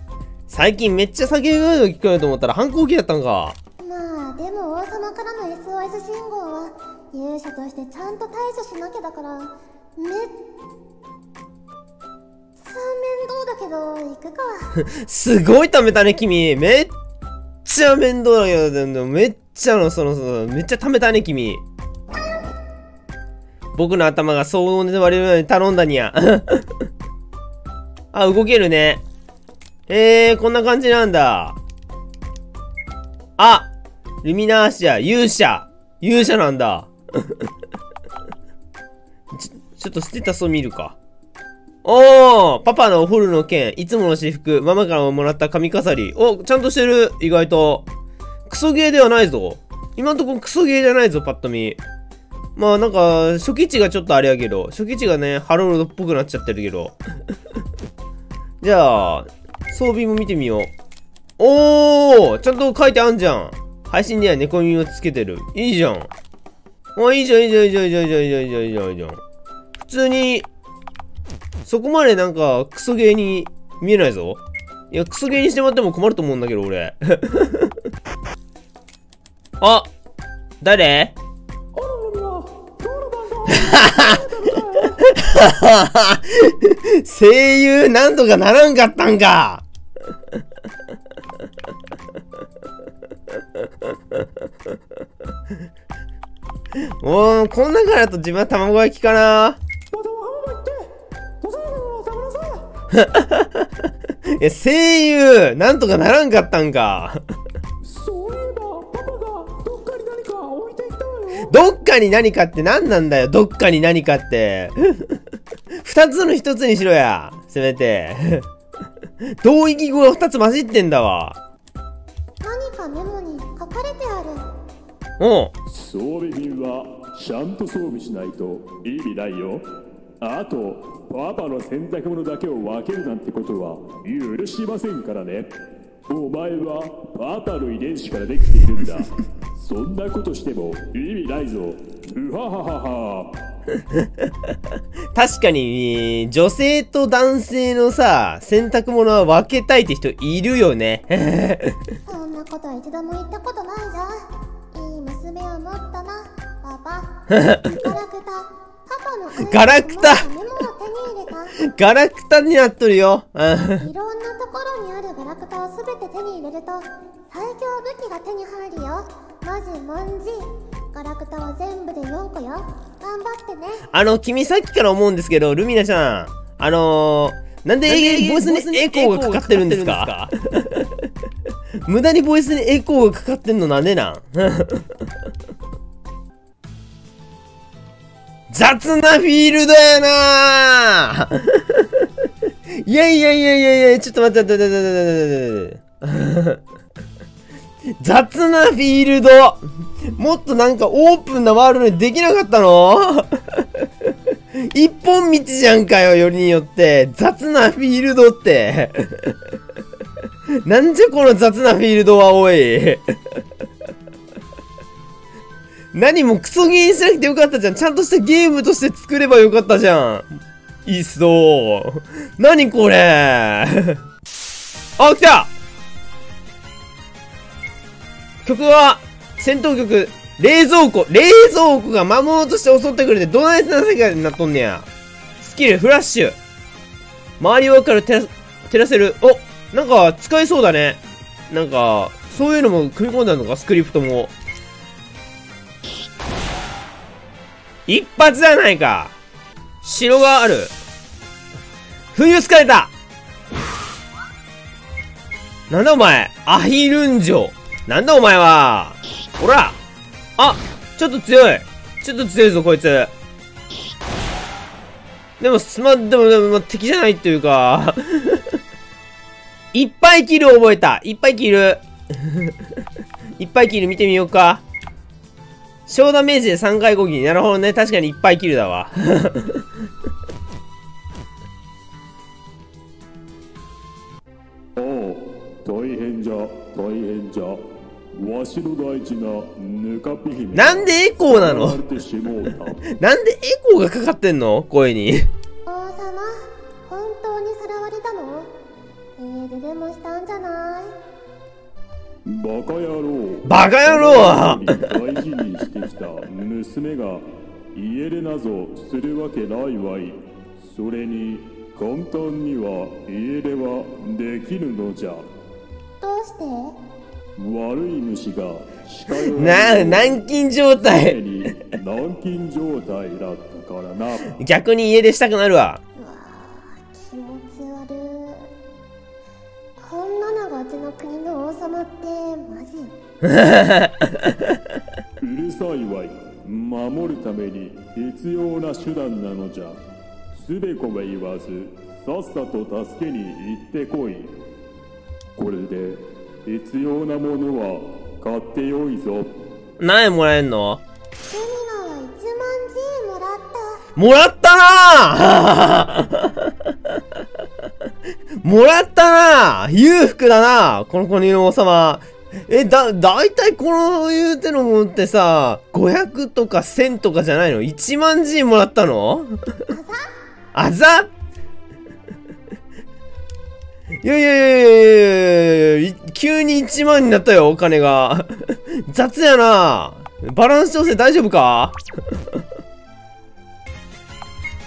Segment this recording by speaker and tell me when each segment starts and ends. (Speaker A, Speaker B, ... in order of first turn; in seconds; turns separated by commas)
Speaker A: 0.5-3.6, Speaker B: 3.8-10.4, Speaker B: 12.6-14.8, Speaker A: 14.8-16.9, Speaker A: 17.6-21.6, Speaker A: 23.7-26.6, Speaker A: 28.1-29.0, Speaker A: 29.9-31.6, Speaker A: 33.4-33.7, Speaker A: 34.2-36.9, Speaker A: 39.3-41.0, Speaker A: 41.8-47.9, Speaker A: 48.5-51.8, Speaker A: 52.6-56.9, Speaker A: 58.6-60.7, Speaker A: 61.4-66.1, Speaker A: 67.0-69.2, Speaker A: 69.8-70.5, Speaker A: 71.7-74.4, Speaker A: 74.9-77.7, Speaker A: 79.6-79.9, Speaker A: 80.6-81.2, Speaker C: 81.7-85.0, Speaker A: 83.5-84.4, Speaker A: 85.0-89.6, Speaker A: 97.0-99.6, Speaker C: 99.9-100.9, Speaker C: 101.4-102.7, Speaker A: 102.9-103.7, Speaker A: 104.3-107.2, Speaker C: 107.8-111.6, Speaker A: 111.4-115.0, Speaker A: 115.8-118.5, Speaker A: 119.4-121.4, Speaker B: 122.4-124.5, Speaker A: 125.2-125.5, Speaker C: 125.7-129.7, Speaker C: 130.2-135.5, Speaker C: 136.1-143.4, Speaker A: 145.1-151.8, Speaker B: 152.1-161.6, Speaker A: 157.3-157.8, Speaker A: 159.4-160.3, Speaker A: 161.6-163.9, Speaker B: 163.8-173.8, Speaker A: 173.9-180.3, Speaker C: 177.9-179.3, Speaker A: 181.8-184.9, Speaker A: 188.5-192.1, Speaker A: 192.8-196.6, Speaker A: 198.0-203.9, Speaker A: 204.6-209.4, Speaker A: 210.6-213.0, Speaker A: 215.9-220.3, Speaker A: 220.9-224.0, Speaker A: 225.0-225.5, Speaker A: 228.4-234.9, Speaker A: 235.4-236.4, Speaker A: 237.4-244.3, Speaker A: 247.9-249.1, Speaker A: 249.8-250.7, Speaker A: 252.2-252.9, Speaker A: 255.7-259.8, Speaker A: 260.4-263.1, Speaker A: 265.4-268.5, Speaker A: 269.7-272.5, Speaker A: 273.4-274.6, Speaker A: 275.9-279.6, Speaker C: 284.8-287.6, Speaker C: 288.1-292.9, Speaker A: 290.5-291.8, Speaker A: 292.9-295.3, Speaker B: 295.7-298.5, Speaker B: 299.2-300.9, Speaker C: 302.2-315.3, Speaker A: 303.4-304.9, Speaker B: 316.0-316.8, Speaker C: 317.4-320.2, Speaker A: 319.3-321.2, Speaker C: 320.8-324.4, Speaker A: 324.4-325.8, Speaker B: 326.0-328.5, Speaker B: 329.8-332.9, Speaker A: 333.2-334.6, Speaker C: 335.2-339.8, Speaker C: 340.3-344.4, Speaker C: 345.4-349.4, Speaker A: 349.8-350.8, Speaker B: 351.3-353.8, Speaker A: 354.0-357.0, Speaker A: 358.4-369.3, Speaker B: 369.7-370.1, Speaker A: 370.5-371.1, Speaker A: 374.0-381.8